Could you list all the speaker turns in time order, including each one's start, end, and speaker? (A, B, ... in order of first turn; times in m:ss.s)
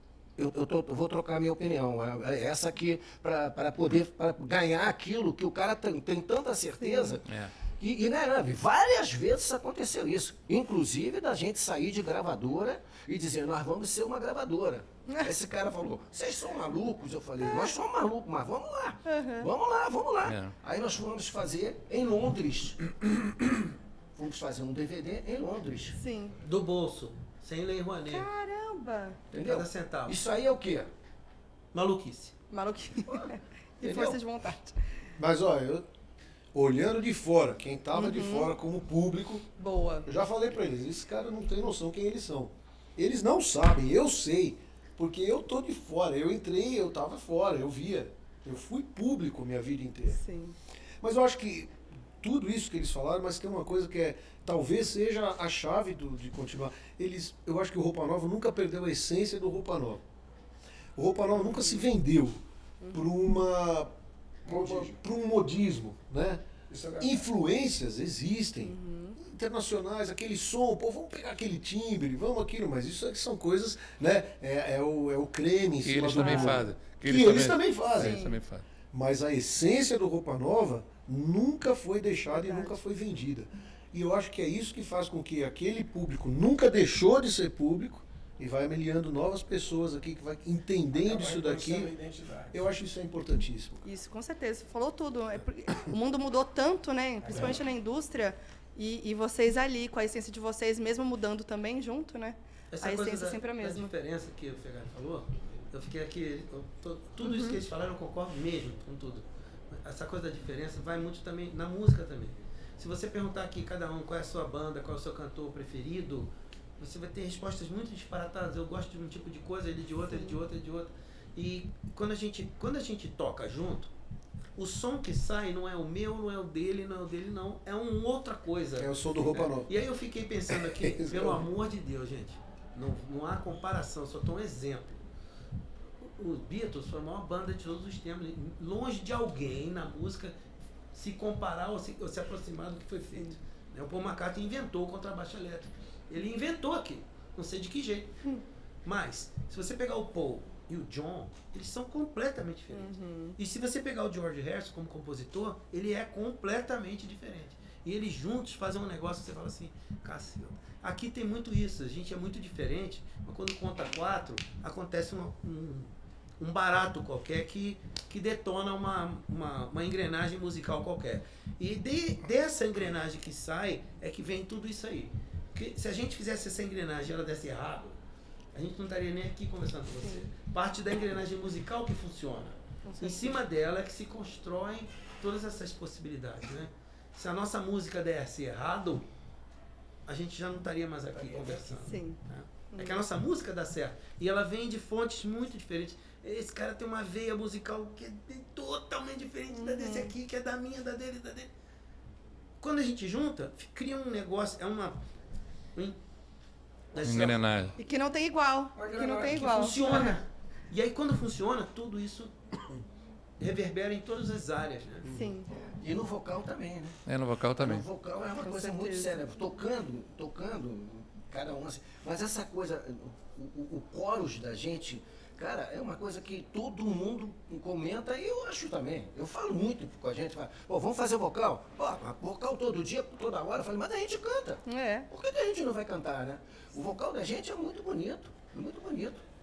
0:00.4-0:23.3 A
0:06.8-0:07.2 B
0:17.4-0:17.7 B
0:19.0-0:19.5 B
0:20.2-0:20.5 C
0:24.2-0:26.0 A
0:25.9-0:26.4 B
0:26.4-0:28.3 D
0:28.1-0:29.2 B
0:29.3-0:30.9 A
0:29.4-0:30.2 D
0:31.7-0:32.3 D
0:32.5-0:34.8 B
0:33.8-0:34.2 A
0:35.2-0:35.8 E
0:36.5-0:39.5 E
0:37.9-0:38.5 B
0:39.6-0:40.1 B
0:40.0-0:50.2 E
0:50.1-0:50.6 B
0:51.0-1:00.0 E
1:01.0-1:02.4 E
1:01.4-1:01.9 B
1:02.8-1:03.1 B
1:02.9-1:03.9 E
1:04.4-1:05.0 F
1:04.5-1:06.4 E
1:06.7-1:07.2 F
1:07.0-1:18.2 E
1:08.6-1:09.2 B
1:15.8-1:18.6 C
1:16.2-1:16.6 B
1:18.0-1:18.4 B
1:18.9-1:31.9 E
1:22.3-1:22.8 B
1:31.0-1:32.6 F
1:32.5-1:33.8 E
1:33.8-1:43.9 B
1:37.2-1:37.6 F
1:42.7-2:03.9 D
1:47.2-1:47.6 B
2:00.1-2:00.4 B
2:04.6-2:15.0 D
2:08.8-2:09.7 E
2:10.5-2:11.4 E
2:16.0-2:20.3 D
2:20.9-2:28.2 D
2:28.8-2:58.0 D
2:32.7-2:33.4 B
2:58.5-3:09.1 D
3:02.8-3:03.4 B
3:10.1-3:21.5 D
3:11.1-3:11.8 F
3:11.8-3:12.2 B
3:12.7-3:13.0 B
3:19.5-3:20.1 B
3:22.6-3:25.0 D
3:26.9-3:27.4 D
3:27.0-3:27.7 C
3:27.8-3:30.2 B
3:28.7-3:29.7 F
3:29.3-3:32.6 D
3:33.4-3:35.1 D
3:35.0-3:35.5 B
3:35.6-3:37.0 A
3:37.0-3:37.8 C
3:37.6-3:59.2 A
3:38.4-3:39.2 B
3:54.6-3:55.1 B